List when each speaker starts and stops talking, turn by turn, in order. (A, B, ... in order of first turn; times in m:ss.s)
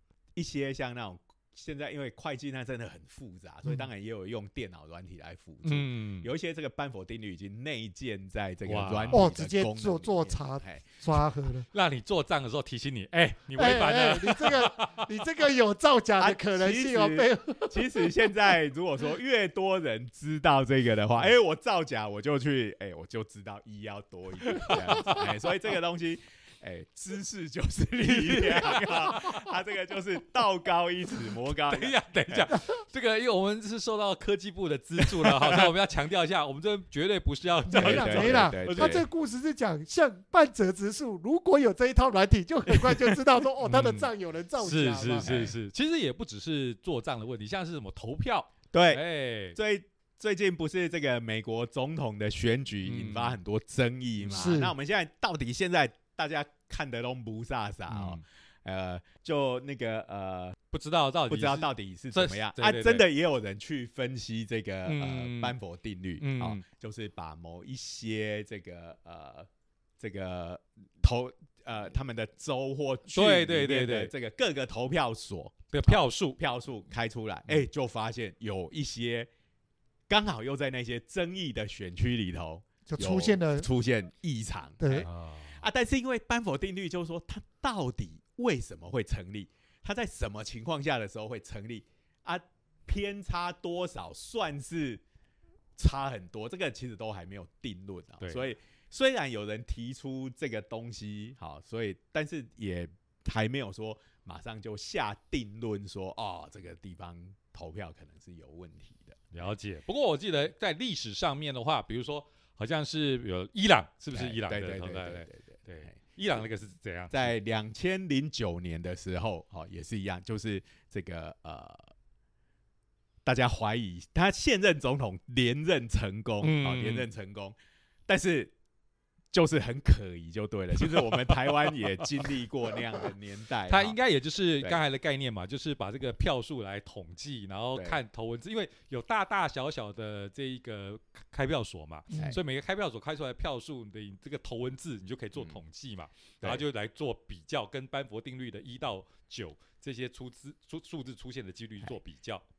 0:00.4-0:10.9 A
0:05.6-0:06.3 B
0:08.6-0:09.2 B
0:09.1-0:11.7 C
0:11.7-0:15.1 B
0:13.6-0:18.1 C
0:16.2-0:32.6 A
0:24.5-0:25.3 B
0:28.0-0:29.5 B
0:31.3-0:39.0 B
0:35.0-0:35.7 A
0:37.7-0:45.4 C
0:37.7-0:39.1 A
0:43.6-0:49.6 B
0:45.2-0:45.6 A
0:48.7-0:49.0 A
0:49.5-1:00.6 A
0:52.8-0:53.4 B
0:54.2-0:54.6 B
0:54.3-0:54.7 C
0:57.9-0:58.2 B
1:00.7-1:03.0 B
1:01.3-1:09.5 A
1:04.9-1:05.6 B
1:06.2-1:06.6 B
1:10.0-1:19.3 A
1:13.1-1:14.1 B
1:15.7-1:16.4 B
1:20.1-1:35.0 A
1:22.9-1:23.7 C
1:24.8-1:25.1 C
1:24.9-1:25.6 B
1:35.8-1:49.5 A
1:49.3-1:57.3 B
1:54.1-1:56.0 A
1:57.1-2:01.9 A
2:03.2-2:07.6 A
2:06.4-2:07.1 B
2:08.1-2:08.5 A
2:09.3-2:14.0 A
2:10.8-2:12.3 B
2:13.7-2:32.4 B
2:17.8-2:18.0 A